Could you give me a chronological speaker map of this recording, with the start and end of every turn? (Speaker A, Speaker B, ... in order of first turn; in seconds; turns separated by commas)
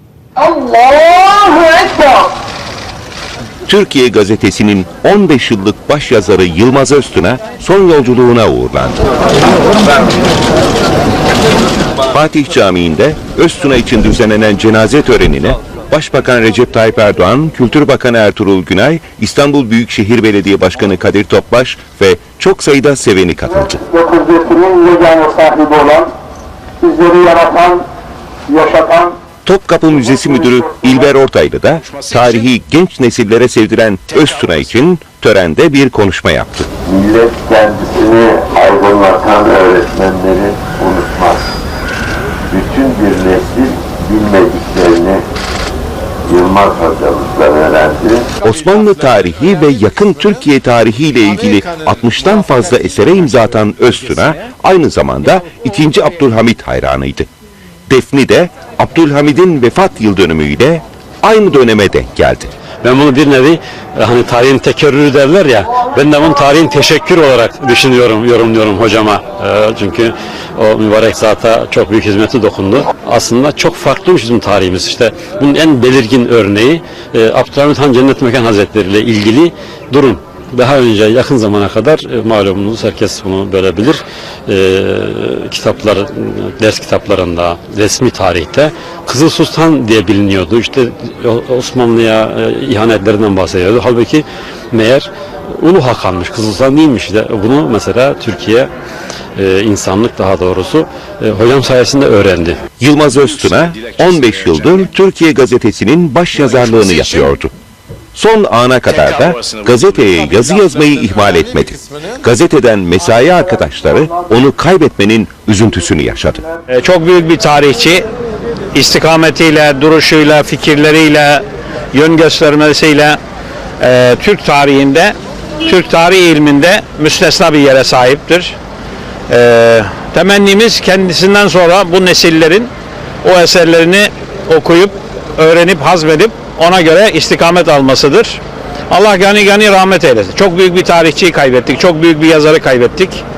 Speaker A: 0.4-2.3, Speaker B: 3.6-9.1, Speaker B: 9.7-10.1, Speaker B: 12.1-23.8, Speaker A: 23.9-26.1, Speaker A: 26.8-27.9, Speaker A: 28.5-29.2, Speaker B: 29.4-36.7, Speaker C: 36.9-41.5, Speaker C: 42.5-45.2, Speaker C: 46.2-48.3, Speaker B: 48.4-57.3, Speaker B: 57.9-62.5, Speaker D: 62.8-98.7, Speaker D: 99.3-102.6, Speaker B: 102.8-107.5, Speaker B: 108.1-116.4, Speaker E: 116.7-118.1, Speaker E: 118.7-123.2, Speaker E: 123.8-128.6, Speaker E: 129.3-132.7, Speaker E: 133.2-143.2